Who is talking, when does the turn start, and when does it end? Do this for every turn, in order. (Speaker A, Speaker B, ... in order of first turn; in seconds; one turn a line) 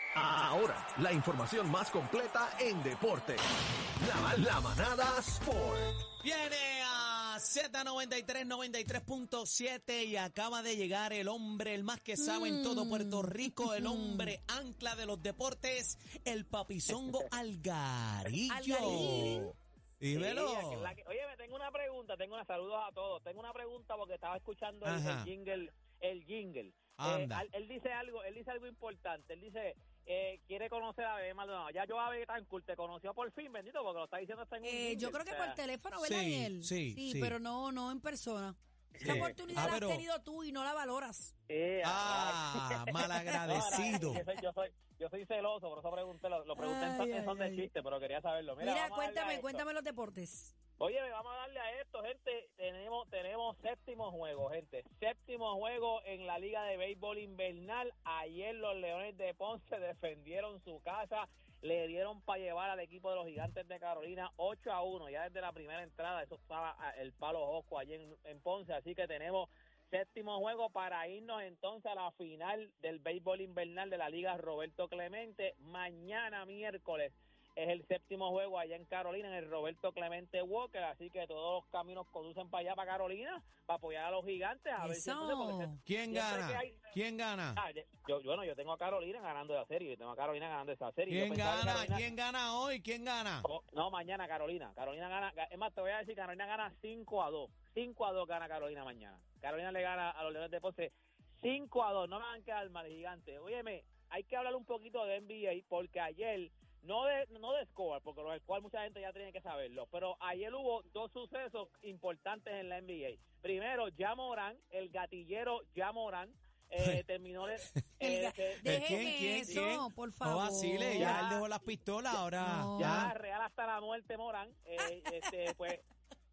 Speaker A: 0.1-3.4
Speaker A: 4.0-6.0
Speaker B: 6.2-20.9
Speaker C: 12.2-14.3
Speaker D: 16.9-17.3
Speaker C: 18.5-19.5
Speaker D: 18.8-19.3
Speaker D: 20.1-35.6
Speaker B: 24.8-25.3
Speaker B: 27.0-27.4
Speaker C: 34.6-41.3
Speaker B: 36.0-37.4
Speaker D: 39.0-39.3
Speaker B: 39.5-40.0
Speaker D: 41.5-49.6
Speaker B: 41.8-44.2
Speaker C: 43.3-44.2
Speaker C: 46.5-47.7
Speaker C: 48.6-50.5
Speaker D: 50.8-86.9
Speaker C: 84.8-85.8
Speaker B: 85.8-87.6
Speaker D: 87.5-92.0
Speaker B: 91.1-93.5
Speaker D: 93.4-119.7
Speaker C: 118.0-121.2
Speaker B: 118.6-123.1
Speaker D: 120.9-121.4
Speaker C: 122.4-123.1
Speaker D: 122.8-125.8